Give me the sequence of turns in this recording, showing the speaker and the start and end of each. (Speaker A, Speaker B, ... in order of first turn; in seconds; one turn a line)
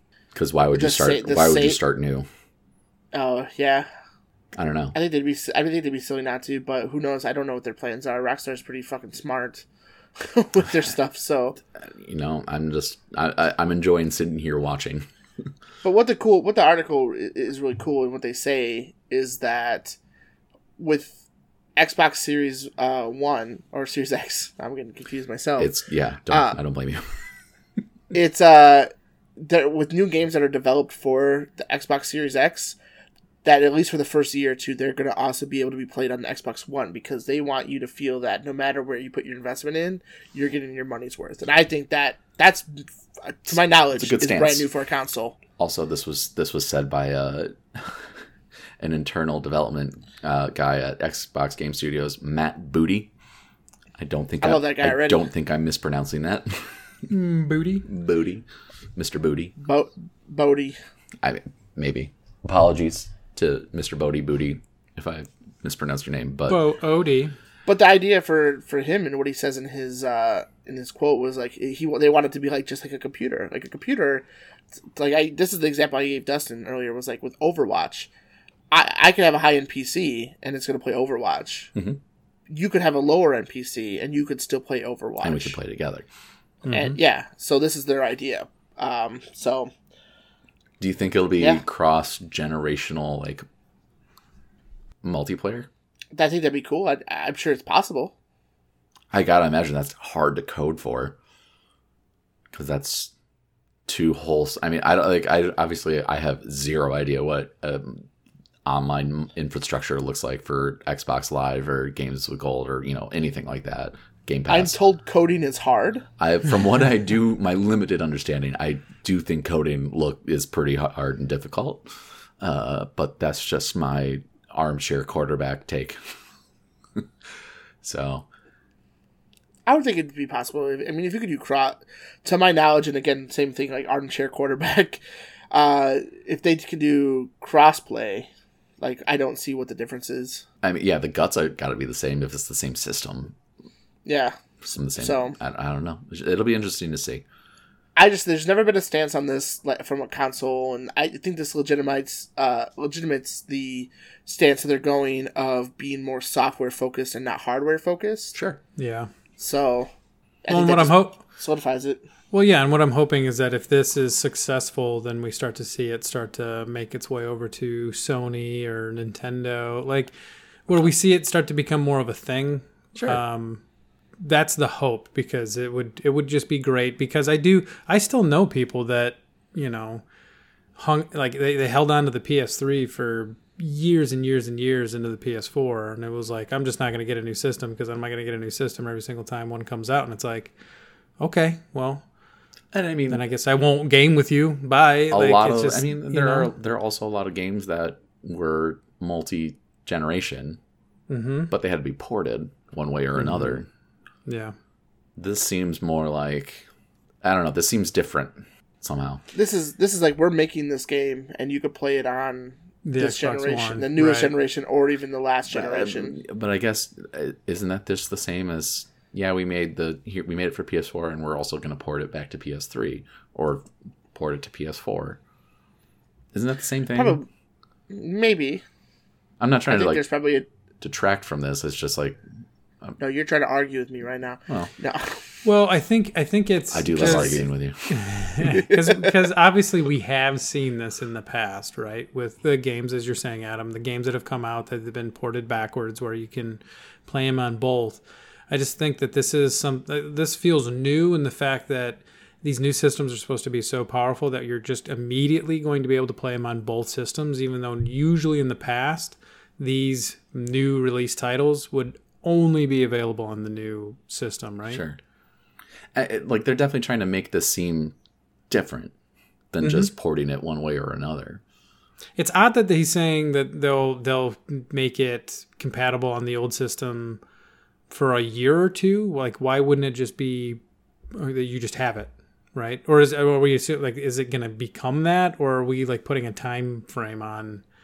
Speaker A: 0.3-2.3
Speaker B: 0.8-1.8
Speaker B: 3.1-3.9
Speaker A: 4.5-5.0
Speaker B: 4.9-9.6
Speaker B: 10.2-11.6
Speaker A: 11.8-15.1
Speaker B: 15.8-20.0
Speaker B: 20.8-21.2
Speaker B: 21.8-25.7
Speaker A: 25.6-27.0
Speaker B: 26.3-26.6
Speaker B: 28.1-32.8
Speaker B: 33.4-45.4
Speaker A: 43.5-44.6
Speaker A: 45.6-48.1
Speaker A: 48.8-53.1
Speaker A: 54.0-56.8
Speaker B: 54.4-55.3
Speaker C: 57.1-57.9
Speaker A: 57.9-59.5
Speaker B: 59.6-60.8
Speaker A: 61.2-66.6
Speaker C: 66.5-67.3
Speaker B: 67.7-74.2
Speaker B: 75.0-78.1
Speaker B: 78.7-81.7
Speaker A: 81.8-82.0
Speaker B: 82.5-85.6
Speaker A: 85.2-86.1
Speaker C: 86.7-87.0
Speaker B: 86.7-89.7
Speaker A: 90.8-93.5
Speaker A: 95.0-95.7
Speaker B: 96.1-98.1
Speaker A: 99.1-101.2
Speaker A: 102.5-103.1
Speaker A: 103.9-108.1
Speaker A: 108.6-114.8
Speaker B: 114.5-116.1
Speaker A: 116.2-121.9
Speaker A: 122.4-126.0
Speaker A: 127.8-128.3
Speaker B: 129.7-138.3
Speaker B: 138.8-140.4
Speaker A: 140.6-143.3
Speaker B: 144.1-144.3
Speaker A: 144.6-147.2
Speaker B: 145.0-145.3
Speaker B: 148.0-158.3
Speaker A: 158.3-158.6
Speaker C: 158.8-159.1
Speaker B: 159.4-159.9
Speaker B: 160.4-162.0
Speaker C: 160.5-161.2
Speaker C: 162.3-170.1
Speaker C: 170.7-173.6
Speaker A: 172.9-173.2
Speaker C: 174.2-180.0
Speaker C: 180.8-190.5
Speaker C: 191.2-192.0
Speaker A: 192.7-193.2
Speaker C: 193.1-196.5
Speaker A: 195.1-200.6
Speaker C: 201.1-201.5
Speaker A: 201.5-203.7
Speaker C: 203.2-203.6
Speaker C: 204.3-204.6
Speaker A: 205.2-206.7
Speaker A: 207.2-209.2
Speaker B: 209.3-216.2
Speaker C: 212.8-214.3
Speaker A: 215.5-225.2
Speaker A: 226.3-227.2
Speaker B: 226.9-227.3
Speaker B: 227.9-228.6
Speaker A: 229.4-230.0
Speaker B: 229.7-230.5
Speaker A: 230.8-232.2
Speaker B: 233.0-235.1
Speaker C: 235.4-264.8
Speaker A: 236.7-238.4
Speaker B: 237.0-237.4
Speaker A: 264.7-265.0
Speaker A: 265.9-267.9
Speaker A: 268.5-268.9
Speaker A: 269.5-271.4
Speaker C: 269.6-269.9
Speaker C: 272.2-277.2
Speaker C: 277.9-280.6
Speaker C: 281.1-287.6